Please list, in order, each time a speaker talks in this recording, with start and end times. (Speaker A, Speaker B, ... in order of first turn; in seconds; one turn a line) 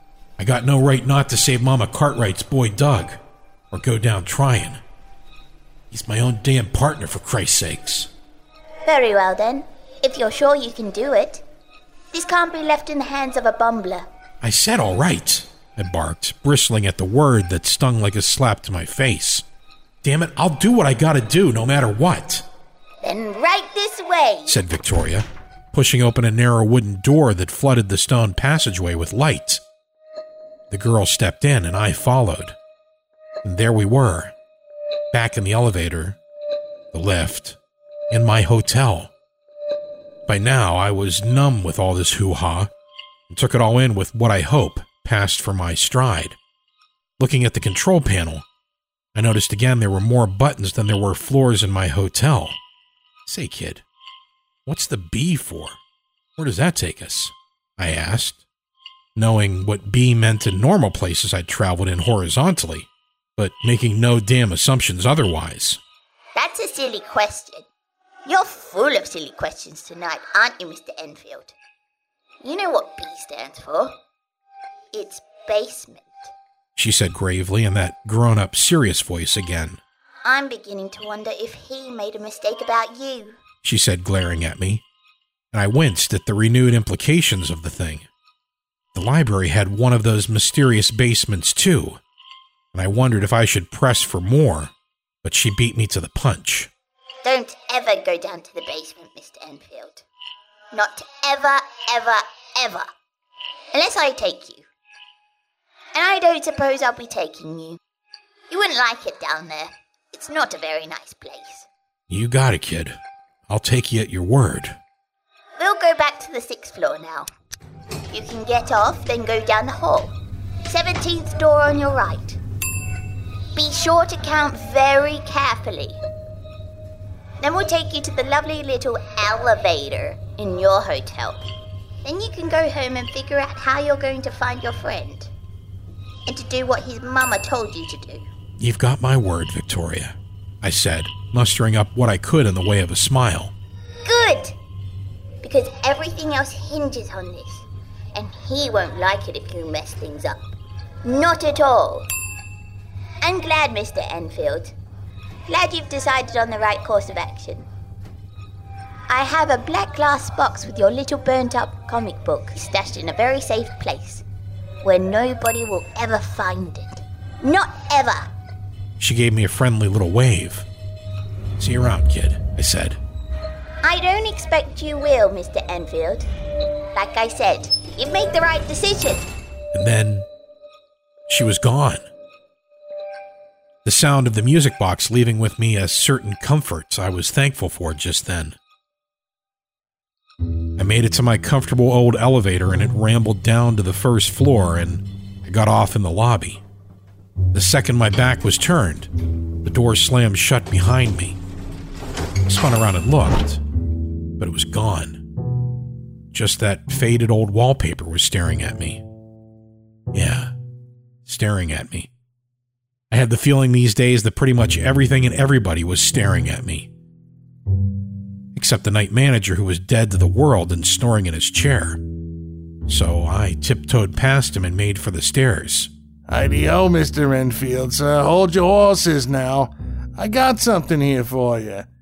Speaker A: 0.4-3.2
Speaker A: 3.7-4.8
Speaker A: 5.9-8.1
Speaker B: 8.8-11.4
Speaker B: 12.1-14.1
Speaker A: 14.4-19.4
Speaker A: 20.0-22.5
Speaker B: 23.0-24.6
Speaker A: 24.4-29.6
Speaker A: 30.7-32.5
Speaker A: 33.4-34.3
Speaker A: 35.1-36.2
Speaker A: 36.9-37.6
Speaker A: 38.1-39.1
Speaker A: 40.2-42.7
Speaker A: 43.3-46.4
Speaker A: 47.2-48.4
Speaker A: 49.1-52.6
Speaker A: 53.2-53.8
Speaker A: 54.6-55.8
Speaker A: 56.4-58.4
Speaker A: 59.1-65.8
Speaker B: 66.3-67.7
Speaker B: 68.2-71.5
Speaker B: 72.4-74.0
Speaker B: 74.9-76.3
Speaker A: 76.8-79.8
Speaker B: 80.2-83.4
Speaker A: 83.6-84.8
Speaker A: 85.5-88.1
Speaker A: 88.9-92.0
Speaker A: 92.7-94.7
Speaker A: 95.2-96.7
Speaker B: 97.2-100.0
Speaker B: 100.7-102.8
Speaker B: 103.7-104.7
Speaker B: 105.9-107.8
Speaker B: 108.5-111.7
Speaker A: 112.1-114.8
Speaker B: 115.6-117.3
Speaker B: 118.1-120.1
Speaker B: 120.7-122.4
Speaker B: 123.5-126.0
Speaker B: 127.4-131.5
Speaker B: 132.0-135.3
Speaker B: 136.3-138.3
Speaker A: 138.6-143.5
Speaker B: 144.0-144.6
Speaker B: 145.4-152.1
Speaker B: 153.2-154.7
Speaker B: 155.5-157.7
Speaker B: 159.1-164.2
Speaker B: 164.8-168.3
Speaker A: 169.0-170.7
Speaker A: 171.6-173.0
Speaker B: 173.8-176.3
Speaker B: 176.9-179.3
Speaker A: 179.7-180.3
Speaker A: 181.3-182.0
Speaker A: 183.8-188.6
Speaker A: 190.8-196.6
Speaker A: 197.5-199.1
Speaker A: 199.6-201.4
Speaker A: 202.4-203.6
Speaker A: 204.4-205.3
Speaker A: 206.3-209.0
Speaker A: 210.1-210.5
Speaker A: 211.2-212.1
Speaker A: 213.1-216.9
Speaker A: 218.5-222.0
Speaker A: 222.9-225.9
Speaker C: 226.3-231.9